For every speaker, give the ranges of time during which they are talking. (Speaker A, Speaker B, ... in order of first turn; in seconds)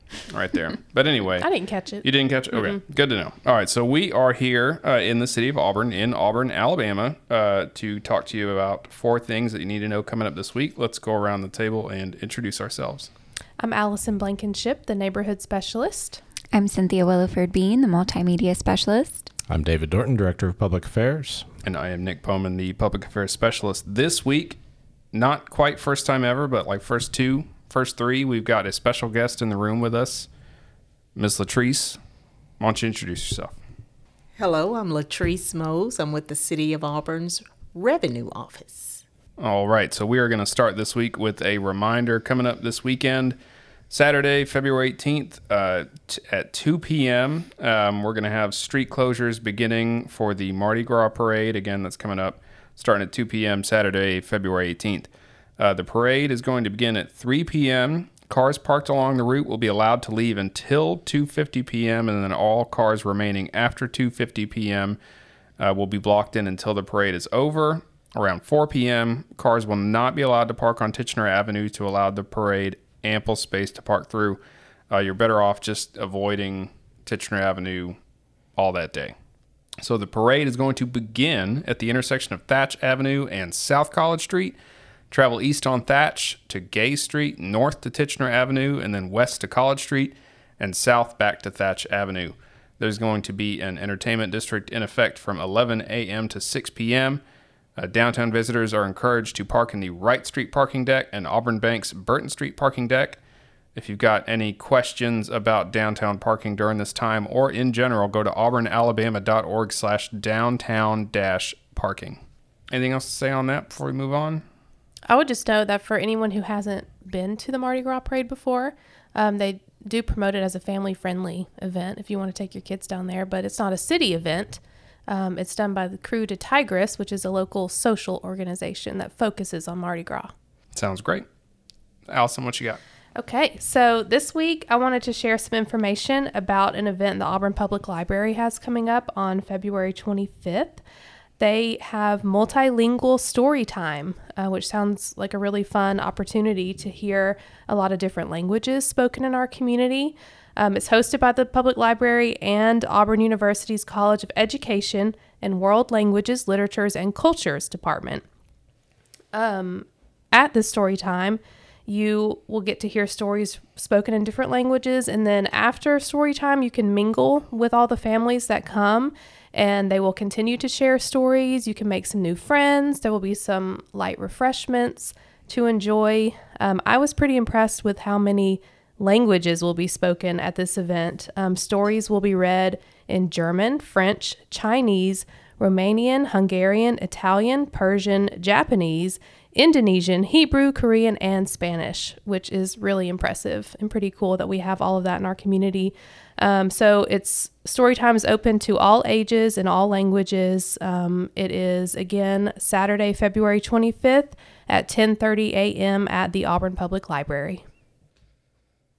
Speaker A: 0.3-1.5, 2.0-13.1, 21.6-24.6, 25.1-30.3, 31.2-32.0, 32.6-33.6, 39.4-43.4, 43.9-65.0, 65.6-78.0, 78.6-79.1, 79.8-84.6, 85.1-97.2, 97.8-103.2, 103.8-112.2, 112.7-114.4, 130.7-131.2, 132.1-132.8
Speaker B: 1.4-2.0, 13.6-16.2, 115.1-130.3, 133.2-140.8, 141.4-158.2, 159.3-207.6
Speaker C: 16.5-19.3
Speaker D: 19.5-21.5
Speaker E: 34.4-39.0